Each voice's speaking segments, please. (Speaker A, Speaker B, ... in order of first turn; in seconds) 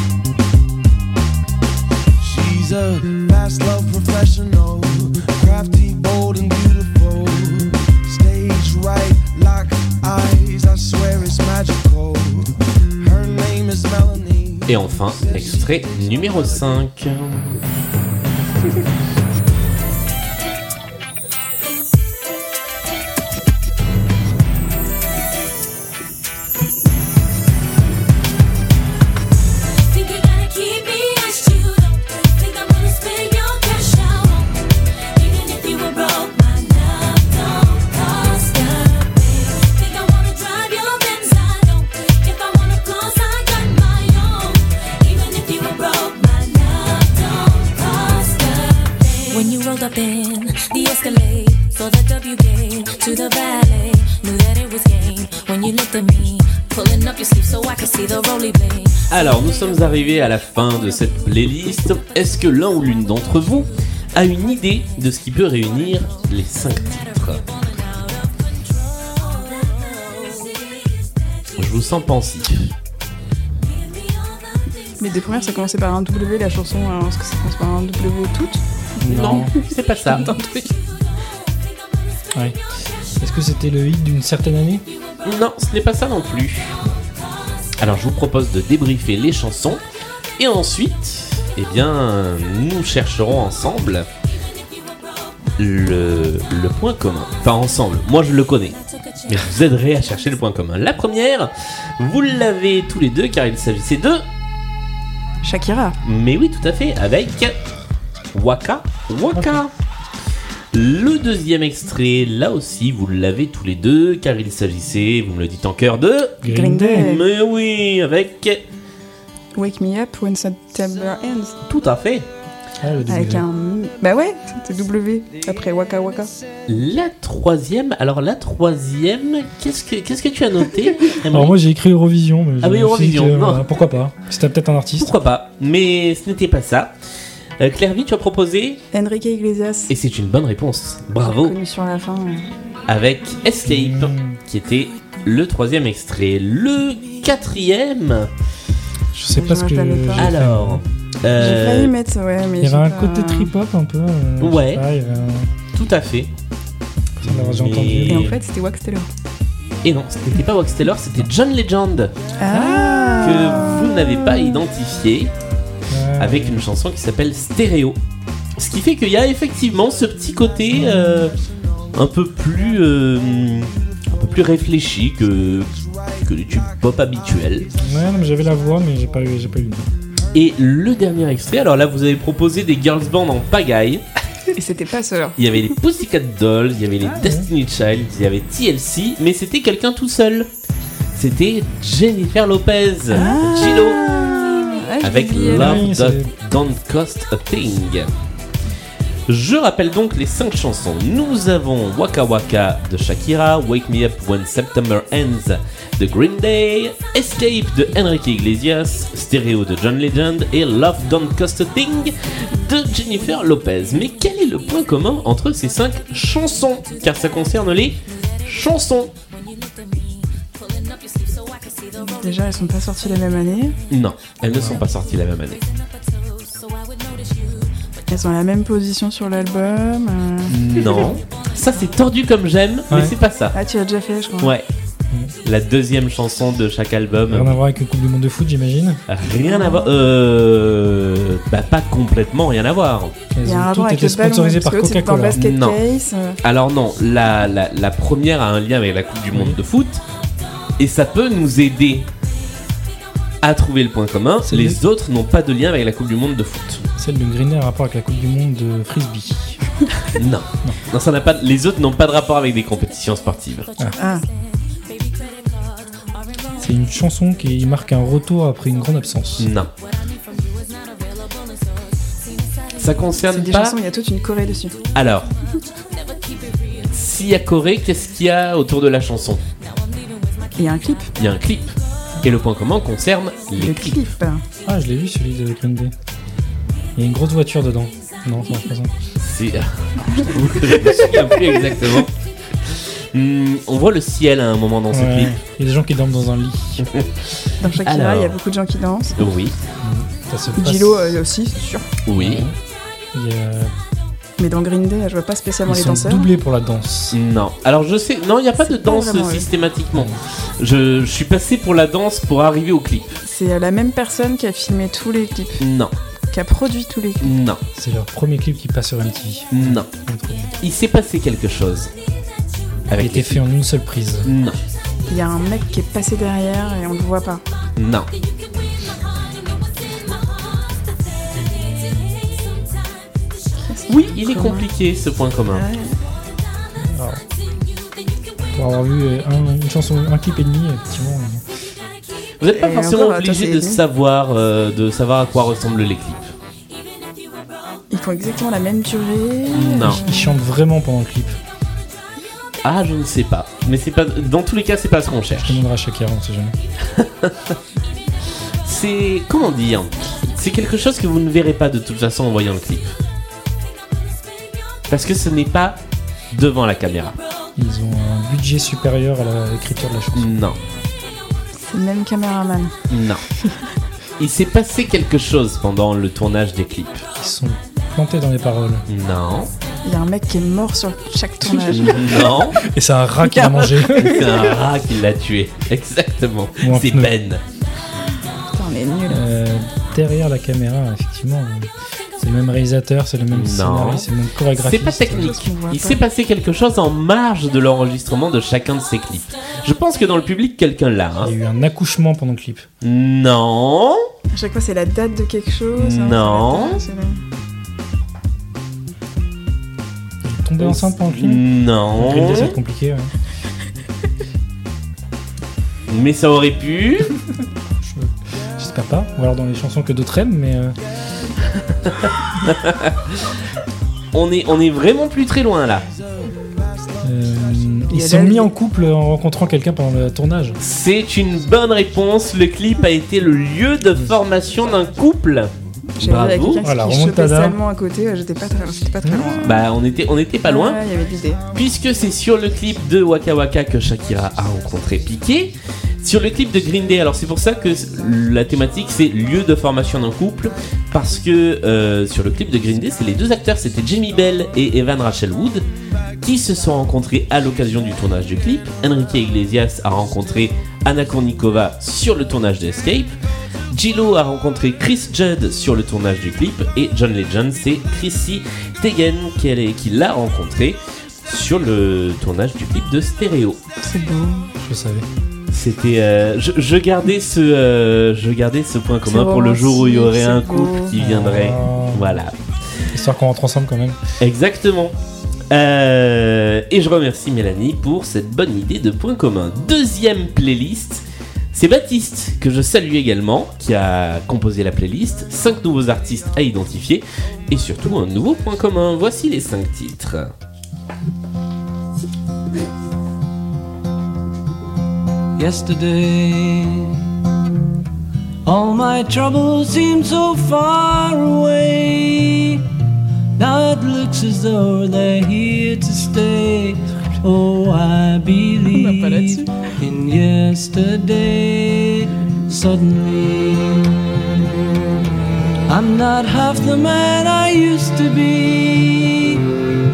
Speaker A: 2.2-16.6, 172.6-173.7, 175.4-177.7, 425.9-427.4
Speaker B: 14.7-17.6, 59.1-67.4, 71.6-72.7, 79.2-80.3, 85.2-86.8, 87.8-89.8, 90.4-94.1, 95.6-104.2, 106.0-107.5, 108.3-109.7, 110.7-118.6, 121.7-122.3, 126.7-131.6, 132.6-133.6, 135.0-136.9, 137.6-138.8, 139.9-141.5, 142.9-148.3, 150.2-151.9, 154.4-154.8, 155.7-156.3, 157.2-158.3, 159.8-162.1, 162.8-165.3, 166.2-168.0, 168.6-171.3, 171.9-177.7, 180.3-184.0, 185.4-190.5, 191.1-194.1, 195.0-198.1, 199.3-219.1, 223.9-225.6, 230.5-233.6, 234.4-234.7, 235.4-237.6, 239.1-243.1, 245.3-245.8, 246.4-250.0, 250.8-252.1, 253.4-256.8, 260.1-263.7, 269.4-269.7, 272.8-273.8, 274.9-275.3, 276.9-279.4, 281.2-284.1, 289.2-292.1, 292.7-295.4, 296.8-297.1, 297.7-298.4, 299.2-299.6, 302.1-302.5, 307.1-313.2, 315.6-315.9, 317.2-317.6, 319.5-319.9, 320.6-321.9, 322.9-323.4, 324.2-324.6, 327.8-328.1, 333.9-335.7, 342.4-346.3, 349.5-350.0, 352.6-355.6, 356.9-357.5, 358.6-362.9, 364.9-365.8, 366.3-367.2, 370.1-370.6, 372.9-373.2, 374.2-377.0, 378.9-379.5, 381.7-382.6, 383.8-387.4, 393.3-401.3, 402.8-404.0, 405.8-406.8, 410.6-412.6, 415.9-417.1, 421.6-423.3, 424.1-425.9, 430.6-436.6, 439.4-440.8, 441.5-455.6, 456.2-463.1, 463.7-473.6, 475.5-482.3, 484.2-484.9, 485.5-500.3
Speaker C: 29.6-59.1, 67.8-68.4, 69.3-70.6, 219.4-222.3, 225.9-227.7, 264.9-265.7, 270.0-271.7, 275.9-276.9, 280.0-280.3, 330.0-330.3, 332.0-332.7
Speaker D: 75.0-80.7, 105.4-106.0, 116.5-117.2, 119.5-121.6, 123.1-126.3, 138.9-139.9, 141.2-142.5, 149.3-150.3, 151.3-153.5, 158.1-159.1, 162.4-164.2, 184.6-185.7, 193.1-195.9, 222.0-223.8, 228.1-230.8, 233.5-234.5, 239.3-239.9, 243.4-246.4, 264.0-264.2, 273.3-274.7, 280.6-281.1, 283.6-284.4, 290.0-290.6, 297.6-299.2, 300.6-301.9, 304.4-306.3, 308.6-309.5, 313.2-315.6, 316.3-317.4, 325.1-327.4, 333.6-334.7, 335.5-336.0, 342.5-343.8, 347.9-350.3, 371.6-372.7, 379.8-382.3, 388.5-389.2, 395.1-396.0, 404.3-407.2, 427.9-428.5, 436.0-439.6, 440.4-441.4, 473.8-474.5, 479.1-480.9, 518.7-519.6
Speaker E: 79.0-79.5, 82.3-82.6, 83.1-84.8, 109.3-109.6, 116.4-117.1, 122.8-123.5, 131.2-135.1, 143.6-144.4, 149.1-150.8, 152.6-155.5, 157.2-158.3, 162.5-163.2, 165.9-166.6, 170.8-171.2, 177.8-179.9, 187.0-187.5, 195.5-196.3, 224.4-224.8, 232.9-233.2, 237.3-239.0, 243.3-245.4, 249.3-249.6, 254.4-254.8, 257.0-259.6, 266.6-269.5, 284.6-285.9, 286.9-288.9, 294.9-296.9, 299.8-301.2, 302.1-302.6, 303.1-303.7, 305.7-307.2, 309.9-310.2, 317.7-320.5, 322.9-324.3, 331.5-332.1, 336.8-337.2, 338.5-341.4, 349.8-351.4, 355.3-356.6, 367.6-370.4, 377.1-378.8, 381.4-384.6, 386.6-387.1, 389.1-395.3, 401.2-402.7, 410.2-413.1, 417.8-420.8, 427.0-430.6, 436.6-437.6, 439.0-439.3, 474.6-475.1, 480.9-482.2, 482.9-484.0
Speaker F: 505.4-507.0, 508.4-512.6, 513.4-523.8, 525.7-529.4